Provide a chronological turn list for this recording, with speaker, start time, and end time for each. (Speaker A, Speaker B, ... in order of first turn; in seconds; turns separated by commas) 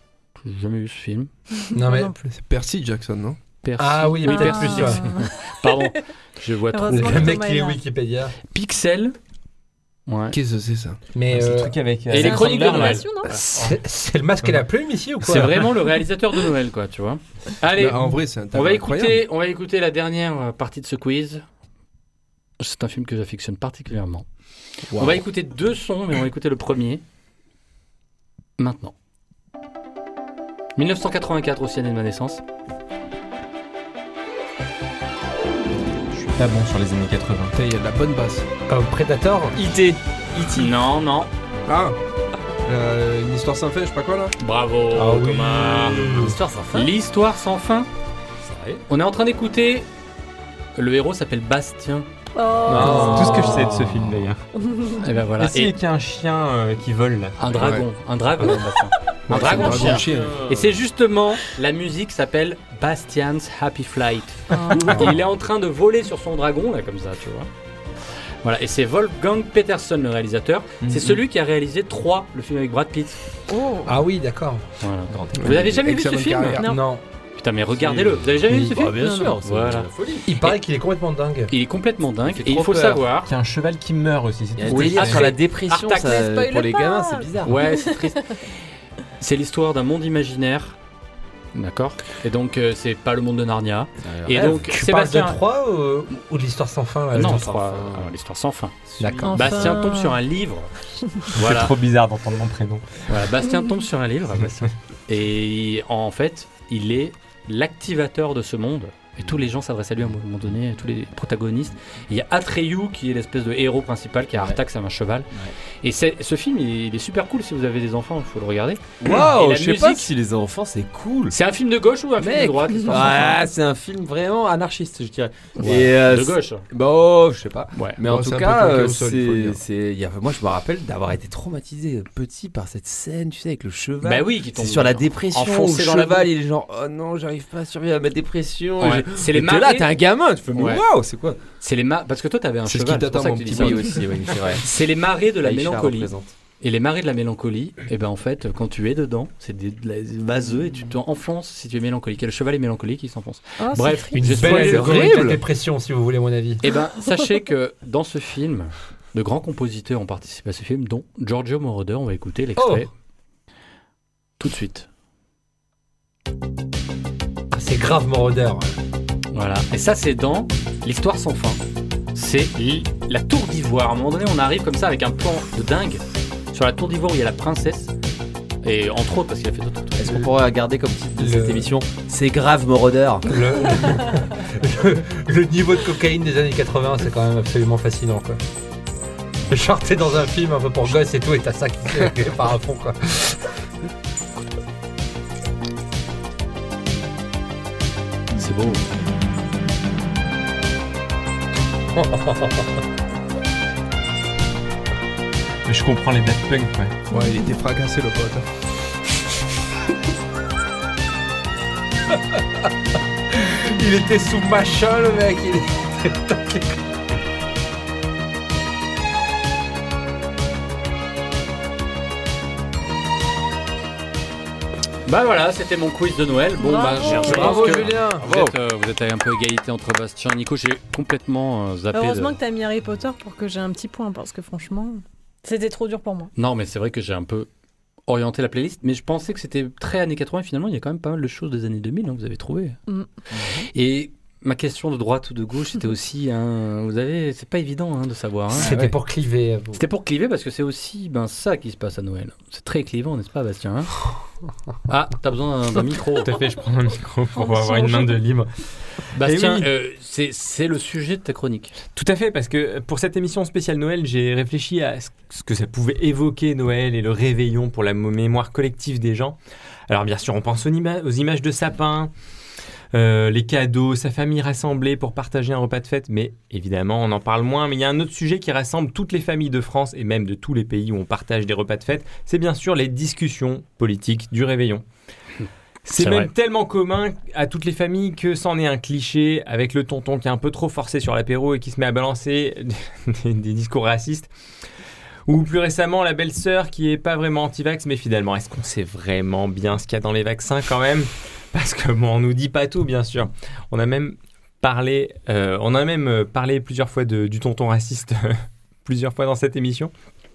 Speaker A: 0.4-1.3, Speaker B: 1.6-2.2, Speaker C: 1.7-2.1, Speaker D: 2.3-3.4, Speaker A: 3.6-7.4, Speaker C: 3.8-5.0, Speaker B: 4.2-5.4, Speaker B: 6.7-7.8, Speaker C: 6.9-8.3, Speaker A: 8.5-9.1, Speaker A: 10.1-10.3, Speaker D: 10.3-11.0, Speaker C: 11.1-11.8, Speaker E: 11.3-13.1, Speaker A: 12.1-13.4, Speaker B: 12.1-13.4, Speaker C: 13.3-15.7, Speaker A: 15.2-21.4, Speaker D: 17.7-19.2, Speaker A: 22.6-24.2, Speaker A: 24.9-27.0, Speaker A: 28.6-28.9, Speaker A: 30.8-32.4, Speaker E: 36.2-37.5, Speaker D: 37.5-38.5, Speaker C: 38.7-39.7, Speaker A: 40.5-41.3, Speaker D: 41.7-41.9, Speaker D: 42.6-44.3, Speaker A: 44.4-47.9, Speaker C: 44.9-46.4, Speaker F: 48.5-48.8, Speaker A: 48.9-49.9, Speaker A: 50.8-52.1, Speaker B: 52.4-53.6, Speaker C: 52.7-54.1, Speaker A: 52.7-53.3, Speaker E: 52.9-54.4, Speaker B: 54.6-55.0, Speaker A: 55.0-55.8, Speaker E: 55.4-57.8, Speaker A: 57.4-67.5, Speaker E: 59.3-60.0, Speaker D: 59.3-60.4, Speaker B: 64.5-65.1, Speaker A: 68.4-73.2, Speaker C: 73.8-74.6, Speaker A: 74.8-76.6, Speaker F: 75.1-75.7, Speaker D: 75.3-76.7, Speaker B: 76.5-76.9, Speaker C: 76.6-77.0, Speaker A: 77.4-79.9, Speaker F: 77.8-80.3, Speaker B: 78.9-79.3, Speaker C: 80.2-81.5, Speaker A: 81.5-83.3, Speaker F: 82.3-82.9, Speaker E: 82.7-85.3, Speaker F: 84.6-87.6, Speaker A: 84.7-86.2, Speaker B: 85.9-87.3, Speaker A: 87.4-88.2, Speaker A: 89.2-90.8, Speaker A: 91.5-95.4, Speaker F: 94.0-94.7, Speaker C: 94.7-97.6, Speaker A: 97.1-100.7, Speaker F: 97.2-98.1, Speaker F: 99.0-99.4, Speaker C: 99.0-99.3, Speaker B: 99.2-100.2, Speaker A: 101.3-101.7, Speaker E: 101.3-102.9, Speaker A: 103.1-115.3, Speaker A: 115.8-120.1, Speaker F: 119.0-121.3, Speaker A: 121.3-123.4, Speaker F: 122.2-141.4, Speaker A: 125.6-126.6, Speaker A: 127.7-128.0, Speaker D: 128.1-129.6, Speaker A: 134.0-136.3, Speaker A: 138.8-139.9, Speaker A: 140.5-140.8, Speaker A: 141.6-144.0, Speaker D: 142.7-143.8, Speaker F: 143.3-144.6, Speaker A: 144.6-155.3, Speaker F: 145.4-146.3, Speaker B: 153.6-154.4, Speaker C: 154.1-156.6, Speaker F: 154.4-155.4, Speaker A: 156.6-162.9, Speaker C: 162.6-162.9, Speaker A: 164.4-164.9, Speaker C: 167.5-168.8, Speaker A: 169.3-171.6, Speaker A: 172.1-177.9, Speaker A: 178.6-180.2, Speaker F: 180.0-183.3, Speaker C: 181.2-181.7, Speaker C: 183.3-188.4, Speaker C: 189.5-193.4, Speaker A: 198.4-198.8, Speaker C: 201.9-202.6, Speaker E: 205.7-207.0, Speaker D: 207.1-208.4, Speaker C: 213.3-216.8, Speaker A: 225.1-232.3, Speaker B: 226.6-227.8, Speaker C: 227.1-228.3, Speaker F: 228.2-228.5, Speaker B: 231.9-236.3, Speaker A: 236.3-237.5, Speaker A: 238.1-242.8, Speaker F: 243.4-243.6, Speaker A: 243.7-248.9, Speaker C: 248.5-249.8, Speaker A: 249.7-253.9, Speaker A: 254.9-256.3, Speaker E: 256.2-258.5, Speaker B: 257.3-258.2, Speaker A: 259.1-261.7, Speaker E: 259.2-259.7, Speaker E: 261.9-269.4, Speaker E: 269.9-272.1, Speaker E: 272.9-284.8, Speaker E: 285.8-294.3, Speaker A: 286.0-286.3, Speaker E: 295.3-309.9